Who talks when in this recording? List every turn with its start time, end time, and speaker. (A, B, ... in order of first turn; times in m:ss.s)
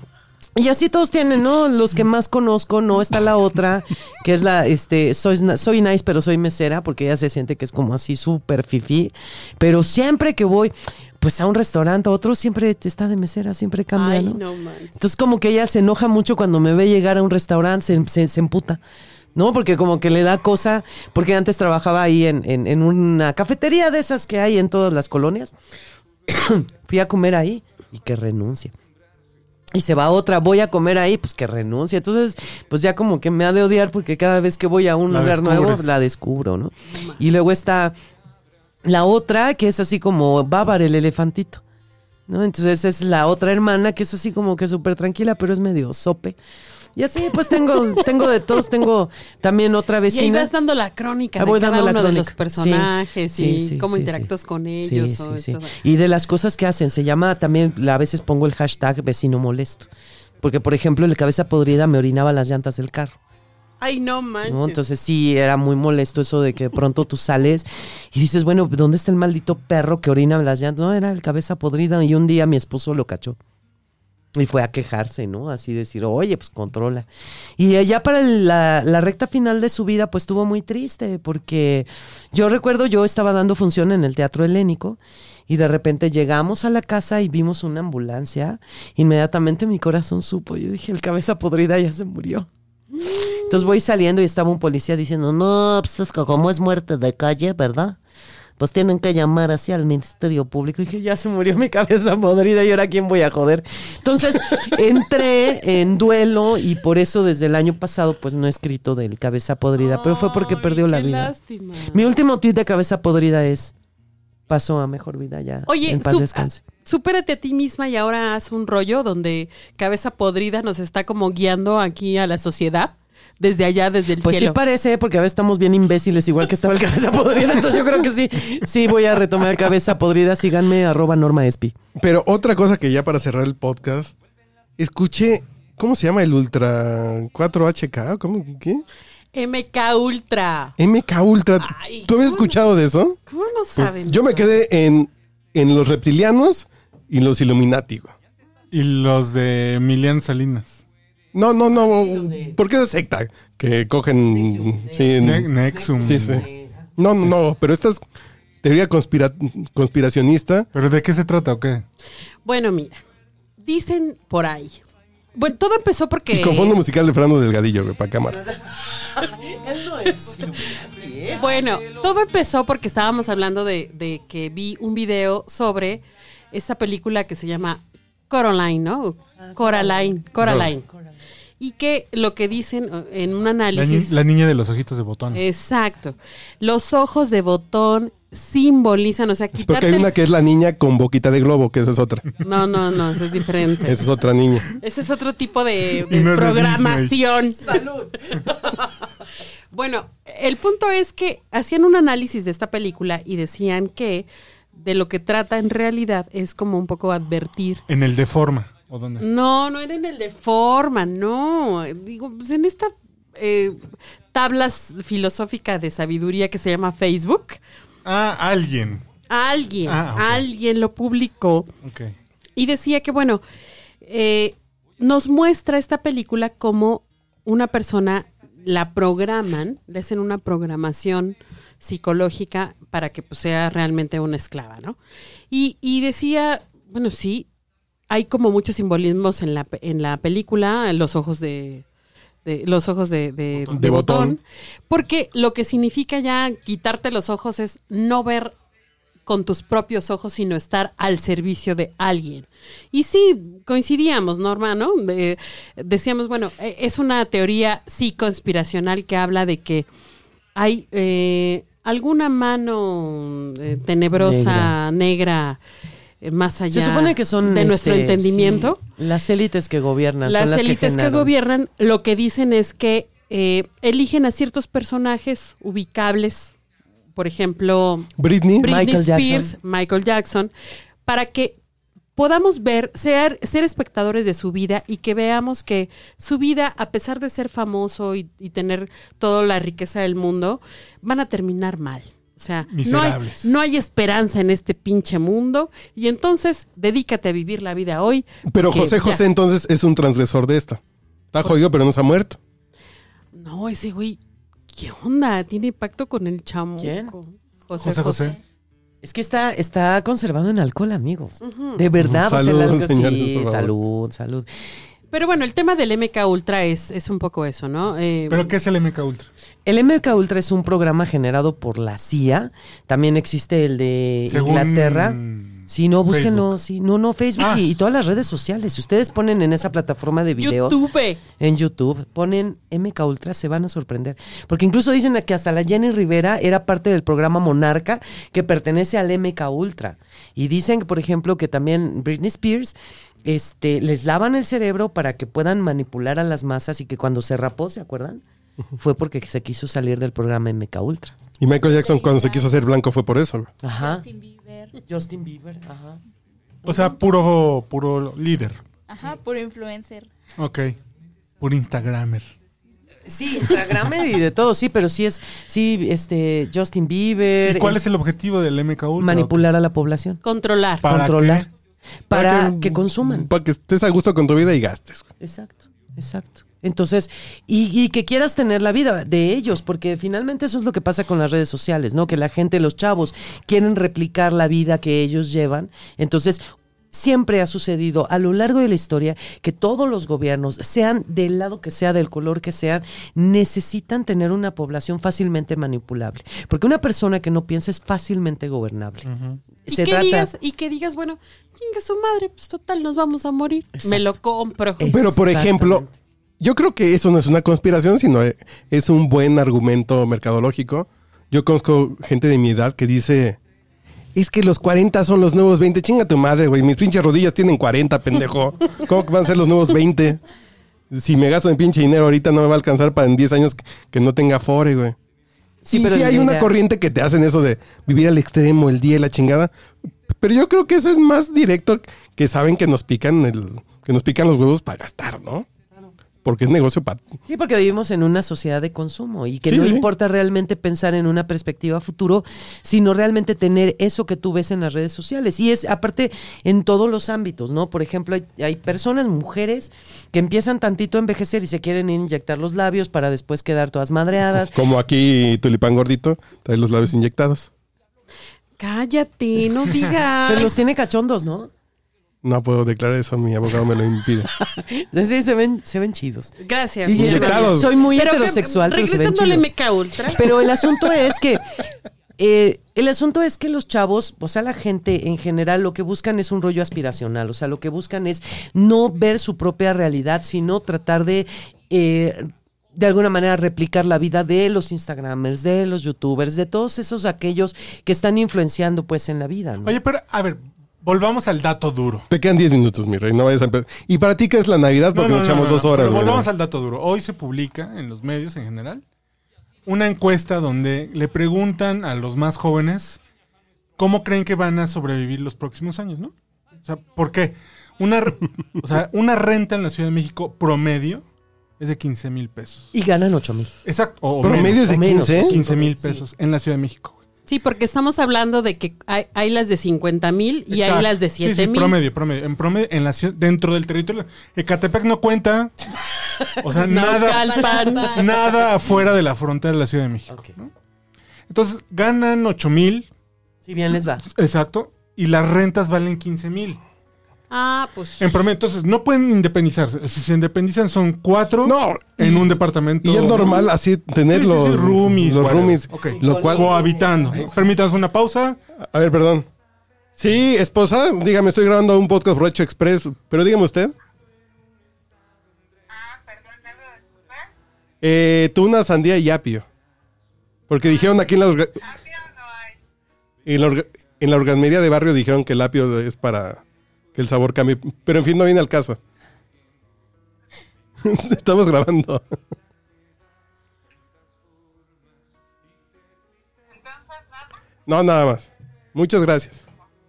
0:00.6-0:14.4 A
0:13.9-0:15.0 B
0:15.0-0:18.8 A
0:19.3-0:25.5 A
0:26.3-0:28.7 A
0:29.7-0:37.9 A
0:35.1-0:36.0 C
0:38.8-0:41.6 A
0:42.3-0:46.4 A
0:47.0-0:50.5 A
0:50.1-0:55.8 B
0:51.4-0:54.3 A
0:54.8-0:59.9 A
1:00.4-1:03.2 A
1:03.8-1:04.8 B
1:04.4-1:13.4 A
1:14.3-1:17.1 A
1:17.6-1:32.5 A
1:33.0-1:38.0 A
1:38.6-1:51.3 A
1:49.8-1:52.2 B
1:51.9-1:53.7 A
1:54.5-1:56.6 A
1:55.6-2:04.6 B
2:04.2-2:11.7 A
2:11.9-2:14.1 D
2:14.8-2:18.8 D
2:19.3-2:20.7 B
2:20.8-2:23.2 D
2:21.6-2:22.6 B
2:23.3-2:24.5 B
2:23.8-2:28.1 D
2:28.7-2:30.8 C
2:31.3-2:36.4 D
2:31.7-2:32.6 A
2:34.3-2:36.9 A
2:35.2-2:36.4 C
2:37.0-2:38.0 D
2:38.6-2:40.7 D
2:40.7-2:41.8 C
2:42.4-2:43.0 B
2:43.6-2:44.8 B
2:45.3-2:46.8 B
2:46.3-2:48.4 D
2:48.3-2:51.9 A
2:51.3-3:00.8 B
2:59.4-3:01.1 A
3:00.4-3:00.7 D
3:01.6-3:04.1 B
3:03.7-3:05.4 C
3:05.3-3:10.1 B
3:09.6-3:12.2 D
3:12.4-3:14.0 B
3:13.8-3:14.6 D
3:14.7-3:17.8 B
3:16.1-3:17.2 C
3:17.6-3:18.2 A
3:18.4-3:19.0 B
3:19.7-3:27.8 B
3:27.9-3:29.2 C
3:29.2-3:33.8 B
3:34.3-3:37.6 B
3:38.0-3:39.0 C
3:39.3-3:41.7 B
3:39.8-3:40.4 C
3:41.8-3:42.1 C
3:42.6-3:43.4 B
3:44.0-3:55.0 B
3:55.5-3:57.5 B
3:58.1-4:01.8 B
4:02.4-4:08.5 B
4:03.7-4:04.4 D
4:09.2-4:19.8 B
4:20.5-4:25.6 B
4:24.2-4:24.7 A
4:26.2-4:28.8 B
4:26.7-4:31.3 A
4:30.2-4:36.5 B
4:37.1-4:40.5 B
4:38.2-4:38.8 D
4:38.6-4:39.5 A
4:41.0-4:41.6 B
4:42.2-4:59.2 B
4:52.7-4:53.5 C
4:58.4-5:00.8 D
5:01.3-5:02.4 D
5:03.3-5:04.2 B
5:04.7-5:08.4 B
5:06.8-5:07.1 A
5:07.8-5:08.4 C
5:09.0-5:14.5 A
5:11.4-5:11.8 B
5:12.0-5:13.7 D
5:15.1-5:18.5 B
5:18.3-5:19.3 C
5:19.6-5:30.8 A
5:24.3-5:26.5 C
5:27.4-5:27.6 C
5:30.4-5:31.2 B
5:31.3-5:48.2 A
5:48.8-5:51.2 A
5:51.4-5:53.5 D
5:51.6-5:52.6 E
5:53.6-5:54.0 A
5:53.8-5:54.7 E
5:54.9-5:56.0 A
5:56.6-5:56.9 A
5:56.6-5:58.6 C
5:58.9-6:00.1 E
6:00.4-6:00.8 C
6:01.4-6:02.3 C
6:03.0-6:07.9 A
6:07.4-6:09.4 C
6:09.0-6:10.2 A
6:10.2-6:10.9 B
6:10.8-6:11.5 C
6:10.8-6:11.5 A
6:12.1-6:13.3 A
6:12.1-6:15.1 D
6:15.2-6:39.1 A
6:39.0-6:39.4 C
6:39.7-6:40.3 A
6:39.7-6:45.1 B
6:43.8-6:44.1 A
6:44.8-6:45.9 A
6:44.9-6:45.8 D
6:46.4-6:53.4 D
6:54.1-7:00.2 D
7:00.9-7:05.0 D
7:05.6-7:06.5 A
7:05.7-7:09.5 D
7:10.1-7:15.5 D
7:16.2-7:17.1 D
7:17.2-7:34.6 A
7:19.4-7:19.9 D
7:34.4-7:37.5 D
7:38.6-7:40.5 B
7:40.2-7:41.5 A
7:42.2-7:44.3 D
7:44.5-7:49.5 A
7:46.4-7:50.8 B
7:46.9-7:47.7 D
7:50.0-7:51.6 A
7:52.2-8:09.8 A
8:09.6-8:12.1 C
8:12.1-8:16.3 D
8:14.9-8:18.8 C
8:19.6-8:23.0 C
8:23.8-8:26.1 C
8:26.6-8:31.0 C
8:31.6-8:32.7 C
8:32.7-8:33.6 A
8:33.6-8:37.0 C
8:34.2-8:35.4 D
8:34.2-8:36.0 A
8:37.3-8:41.8 B
8:40.5-8:45.5 C
8:46.4-8:50.5 C
8:46.6-8:48.1 B
8:47.0-8:48.1 E
8:51.3-8:52.9 C
8:53.4-8:54.0 A
8:54.0-8:56.6 C
8:57.3-8:58.1 B
8:58.0-9:03.4 C
9:01.4-9:06.7 D
9:04.1-9:08.4 C
9:05.9-9:07.3 A
9:08.6-9:09.3 D
9:10.0-9:13.7 D
9:17.8-9:19.4 D
9:20.5-9:22.1 D
9:23.2-9:26.4 D
9:26.9-9:28.8 D
9:30.8-9:32.0 D
9:37.6-9:39.4 D